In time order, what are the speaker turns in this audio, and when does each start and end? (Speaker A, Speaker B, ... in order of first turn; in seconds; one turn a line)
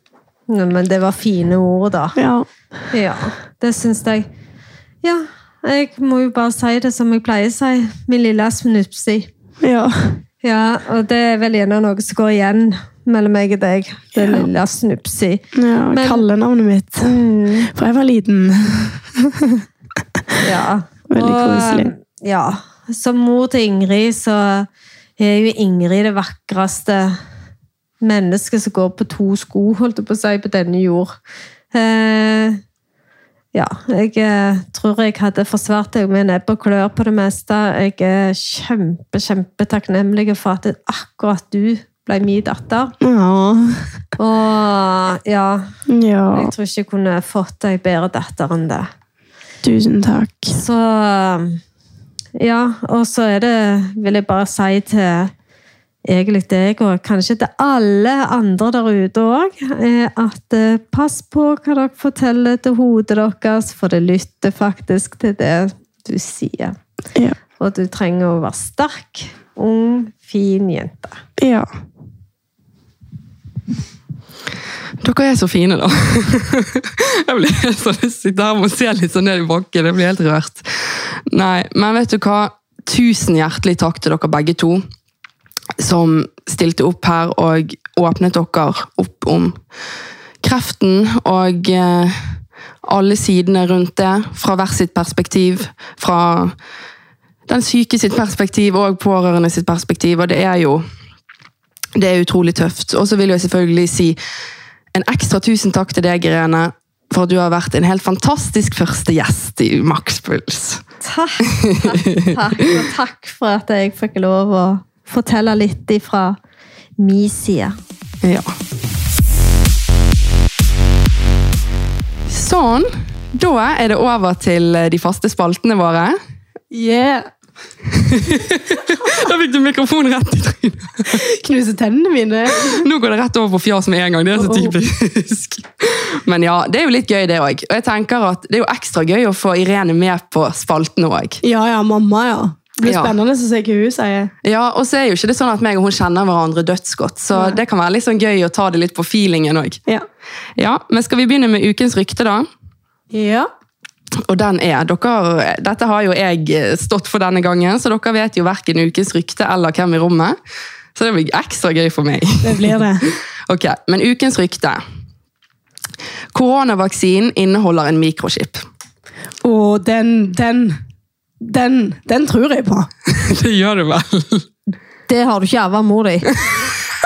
Speaker A: 0.5-2.2
Speaker B: 2.2-2.5
Speaker A: 2.9-4.3
Speaker A: 5.0-9.3
Speaker B: 9.6-10.2
Speaker A: 10.4-16.2
Speaker B: 14.2-14.5
Speaker B: 15.5-17.1
Speaker A: 17.0-17.7
Speaker B: 17.7-19.6
Speaker A: 20.4-27.2
Speaker B: 21.1-21.9
Speaker A: 28.0-31.1
Speaker A: 31.7-32.6
Speaker A: 33.5-42.9
Speaker B: 43.0-43.8
Speaker A: 44.2-45.7
Speaker B: 45.9-46.5
Speaker A: 46.3-48.9
Speaker B: 49.6-50.6
Speaker A: 50.5-51.6
Speaker A: 52.4-55.3
Speaker A: 56.0-66.8
Speaker A: 67.6-71.2
Speaker B: 71.4-71.7
Speaker C: 75.0-84.8
Speaker C: 85.8-89.6
Speaker C: 90.4-96.5
Speaker C: 97.5-100.8
Speaker C: 102.0-104.2
Speaker C: 104.9-110.8
Speaker A: 111.0-116.4
Speaker C: 111.5-112.3
Speaker A: 117.0-117.8
Speaker C: 118.2-118.5
Speaker C: 122.3-126.2
Speaker B: 126.7-127.3
Speaker C: 127.9-131.2
Speaker B: 131.1-132.8
Speaker C: 132.6-141.4
Speaker B: 134.3-134.8
Speaker B: 141.4-144.3
Speaker C: 142.8-143.2
Speaker C: 144.4-149.8
Speaker B: 147.3-147.6
Speaker C: 150.6-152.5
Speaker B: 153.1-153.5
Speaker C: 154.2-160.3
Speaker C: 160.9-164.8
Speaker B: 162.4-163.0
Speaker C: 166.3-168.6
Speaker B: 169.4-170.8
Speaker B: 171.4-172.9
Speaker C: 173.1-174.4
Speaker A: 175.1-176.3
Speaker C: 176.4-176.7